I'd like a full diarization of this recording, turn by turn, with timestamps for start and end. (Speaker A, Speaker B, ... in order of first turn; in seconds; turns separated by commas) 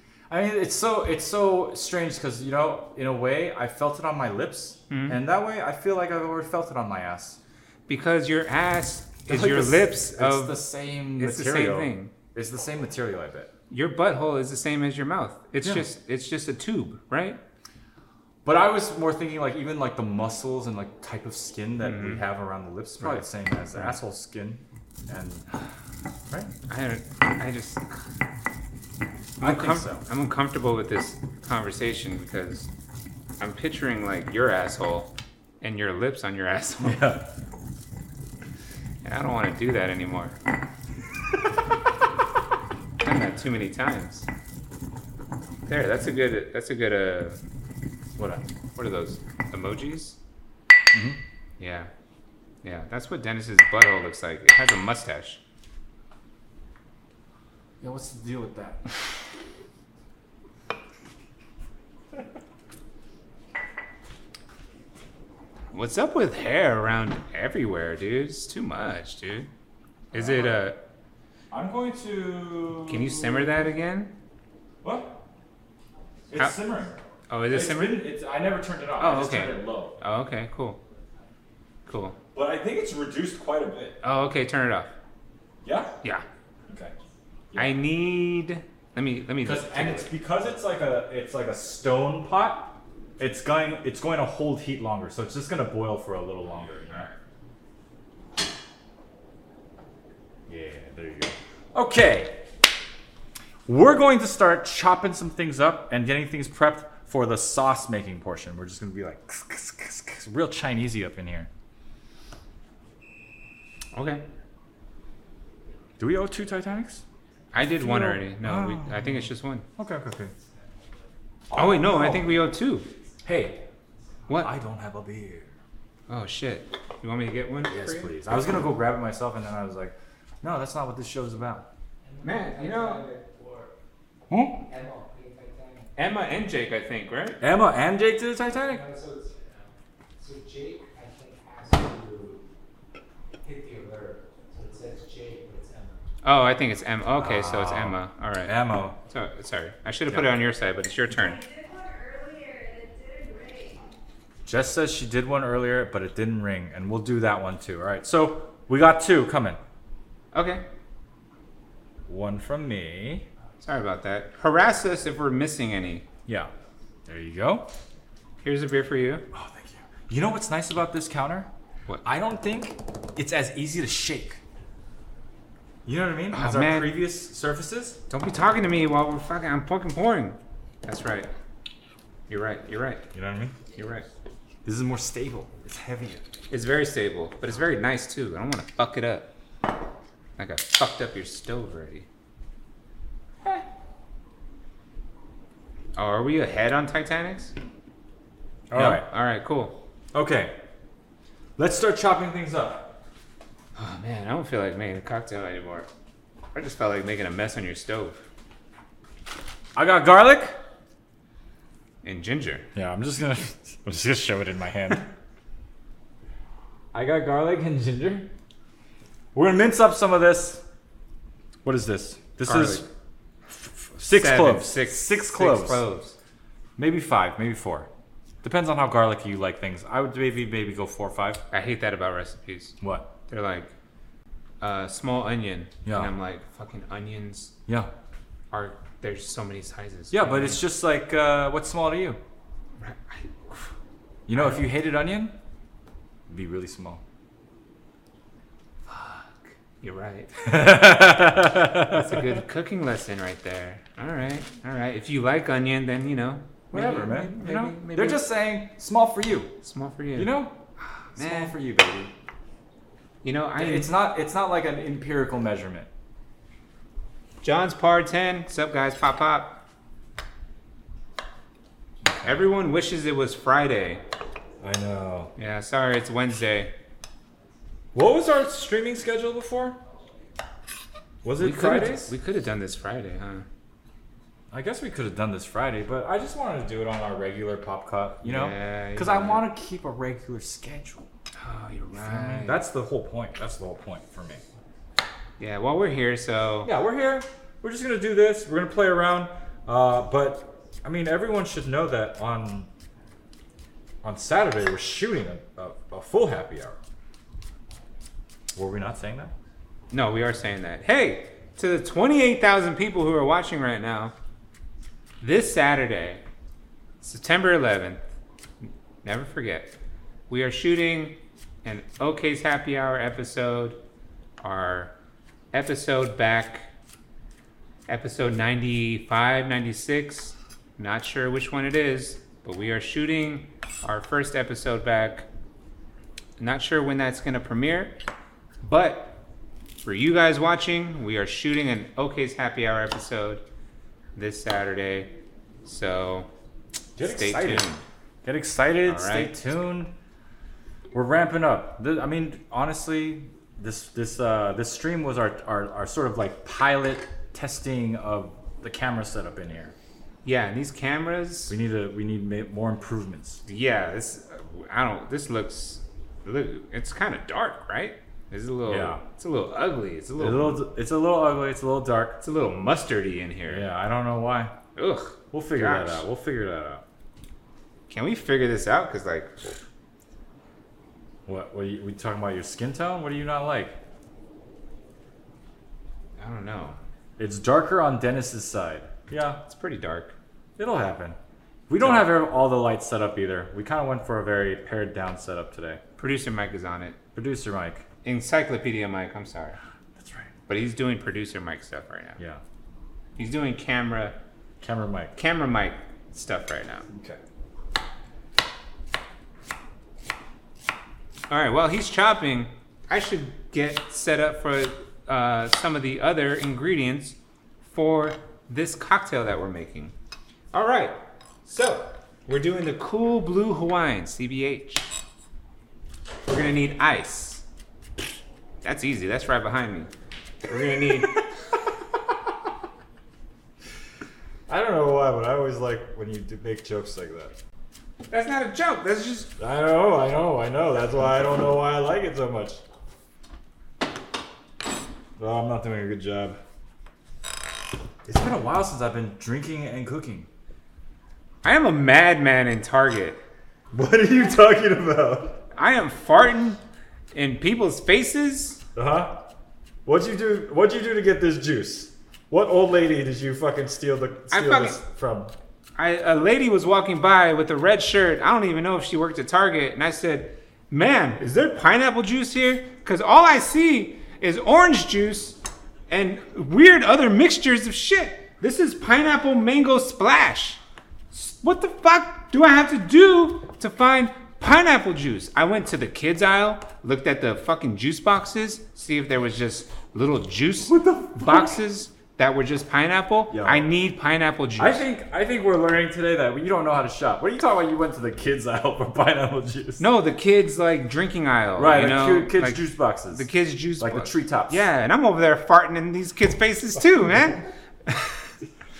Speaker A: 0.3-7.4, Speaker B: 4.9-5.2, Speaker B: 7.9-10.6, Speaker A: 9.2-13.5, Speaker B: 11.2-12.1, Speaker B: 13.7-17.4, Speaker A: 18.4-25.5, Speaker B: 21.8-22.2, Speaker B: 23.0-24.0, Speaker B: 26.7-28.0, Speaker A: 29.4-30.0, Speaker B: 29.4-32.7, Speaker B: 33.4-37.1, Speaker A: 36.8-37.3, Speaker B: 39.0-40.4, Speaker B: 43.0-44.3, Speaker B: 45.6-47.4, Speaker A: 48.2-48.5, Speaker B: 48.8-50.2, Speaker A: 50.9-51.2, Speaker B: 51.6-51.9, Speaker B: 52.6-55.4, Speaker A: 57.8-59.0, Speaker B: 65.7-69.5, Speaker B: 70.1-70.8, Speaker A: 70.1-70.7, Speaker A: 71.5-73.7, Speaker B: 72.9-74.1, Speaker A: 74.8-75.2, Speaker A: 76.3-77.0, Speaker B: 77.3-78.0, Speaker A: 77.5-80.0, Speaker B: 79.0-80.8, Speaker B: 81.8-82.2, Speaker A: 82.3-84.0, Speaker B: 84.0-84.9, Speaker A: 85.6-85.9, Speaker A: 87.5-87.8, Speaker B: 87.5-90.1, Speaker A: 89.4-97.1, Speaker A: 100.5-102.4, Speaker A: 103.7-111.5, Speaker B: 113.9-114.2, Speaker A: 116.0-117.0, Speaker B: 117.5-119.7, Speaker A: 117.6-120.3, Speaker C: 120.4-120.9, Speaker A: 121.5-122.3, Speaker B: 121.5-122.9, Speaker A: 123.2-123.6, Speaker A: 124.3-125.5, Speaker B: 126.1-128.2, Speaker A: 127.7-131.7, Speaker C: 132.0-133.7, Speaker B: 132.2-133.0, Speaker A: 134.3-134.6, Speaker C: 134.7-135.9, Speaker B: 135.9-137.4, Speaker A: 137.4-138.8, Speaker C: 138.5-142.4, Speaker C: 143.4-146.0, Speaker B: 146.2-151.4, Speaker A: 147.2-148.9, Speaker A: 150.1-150.3, Speaker D: 151.3-153.8, Speaker A: 154.4-159.6, Speaker B: 160.3-160.6, Speaker A: 162.1-163.2, Speaker B: 163.6-166.1, Speaker A: 167.1-167.7, Speaker B: 168.4-169.2, Speaker A: 169.3-171.5, Speaker A: 172.0-174.4, Speaker A: 175.8-178.0, Speaker B: 176.3-177.0, Speaker B: 178.1-181.3, Speaker B: 182.3-183.1, Speaker A: 183.1-183.6, Speaker B: 183.7-184.1, Speaker A: 184.6-186.2, Speaker B: 186.5-189.3, Speaker B: 190.4-192.1, Speaker B: 195.9-197.5, Speaker A: 198.7-199.1, Speaker B: 198.7-199.8, Speaker A: 200.1-200.6, Speaker A: 201.6-202.9, Speaker B: 203.7-205.9, Speaker B: 206.5-208.2, Speaker A: 209.7-210.6, Speaker B: 212.0-212.7, Speaker A: 212.7-215.1, Speaker A: 216.9-218.3, Speaker A: 219.3-220.6, Speaker A: 221.6-222.9, Speaker B: 222.4-222.8, Speaker A: 223.5-225.8, Speaker B: 224.1-226.2, Speaker A: 226.8-227.9, Speaker A: 228.4-231.4, Speaker B: 231.5-232.8, Speaker A: 232.8-233.1, Speaker B: 233.3-233.7, Speaker B: 234.6-237.5, Speaker A: 235.8-236.1, Speaker B: 238.5-240.6, Speaker A: 240.1-242.2, Speaker B: 242.8-243.7, Speaker A: 244.3-245.3, Speaker B: 244.3-244.7, Speaker A: 246.3-247.0, Speaker B: 248.9-250.6, Speaker A: 250.4-252.3, Speaker B: 251.8-258.2, Speaker A: 256.7-259.6, Speaker B: 259.6-261.6, Speaker A: 260.1-260.6, Speaker A: 261.1-262.1, Speaker B: 263.2-263.9, Speaker A: 263.6-265.9, Speaker B: 267.4-269.6, Speaker A: 272.0-272.4, Speaker B: 272.2-274.0, Speaker A: 274.6-275.3, Speaker B: 275.4-276.7, Speaker A: 277.9-279.8, Speaker A: 281.2-282.1, Speaker B: 281.4-283.4, Speaker A: 284.5-291.1, Speaker B: 288.2-289.4, Speaker B: 291.4-292.6, Speaker A: 291.9-294.4, Speaker B: 295.4-296.7, Speaker A: 296.6-302.7, Speaker A: 304.0-306.8, Speaker A: 308.5-309.3, Speaker B: 309.9-314.1, Speaker B: 315.2-316.2, Speaker B: 317.0-318.0, Speaker B: 318.6-319.7, Speaker B: 320.3-323.8, Speaker B: 324.4-324.9, Speaker B: 325.5-326.7, Speaker B: 327.9-335.3, Speaker B: 336.4-337.9, Speaker B: 338.6-339.2, Speaker B: 339.8-343.4, Speaker B: 344.1-346.3, Speaker A: 347.0-347.7, Speaker B: 347.0-347.8, Speaker A: 348.2-349.9, Speaker B: 348.8-349.3, Speaker A: 350.9-359.7, Speaker B: 360.2-361.5, Speaker A: 361.5-363.4, Speaker B: 363.5-370.6, Speaker A: 368.7-369.0, Speaker A: 370.2-372.2, Speaker B: 372.2-373.6, Speaker A: 373.5-374.5, Speaker B: 374.8-376.0, Speaker A: 375.3-376.8, Speaker B: 377.9-379.6, Speaker A: 381.3-383.8, Speaker B: 386.2-386.8, Speaker A: 387.2-389.4, Speaker B: 389.5-390.1, Speaker A: 390.6-391.2, Speaker A: 391.7-395.8, Speaker B: 391.8-392.1, Speaker B: 396.0-397.0, Speaker A: 397.1-397.8, Speaker B: 398.0-399.6, Speaker A: 400.0-400.3, Speaker B: 400.5-402.2, Speaker B: 403.1-404.1, Speaker A: 404.6-405.1, Speaker B: 405.1-406.9, Speaker A: 406.9-407.2, Speaker B: 411.3-419.9, Speaker B: 420.5-424.9, Speaker B: 426.3-427.4, Speaker B: 428.6-429.9, Speaker B: 430.4-431.3, Speaker A: 430.9-431.2, Speaker A: 434.5-437.4, Speaker B: 438.1-439.3, Speaker A: 439.4-442.6, Speaker A: 445.2-446.4, Speaker A: 448.0-450.3, Speaker B: 451.4-453.2, Speaker A: 453.7-455.4, Speaker B: 455.5-456.6, Speaker B: 457.1-458.6, Speaker A: 458.7-459.3, Speaker A: 459.9-465.3, Speaker B: 464.3-464.8, Speaker B: 465.8-480.6, Speaker B: 481.1-494.9, Speaker A: 490.7-491.6, Speaker A: 493.3-493.7, Speaker A: 494.6-499.9, Speaker B: 499.8-508.2, Speaker A: 501.6-503.3, Speaker A: 503.8-504.6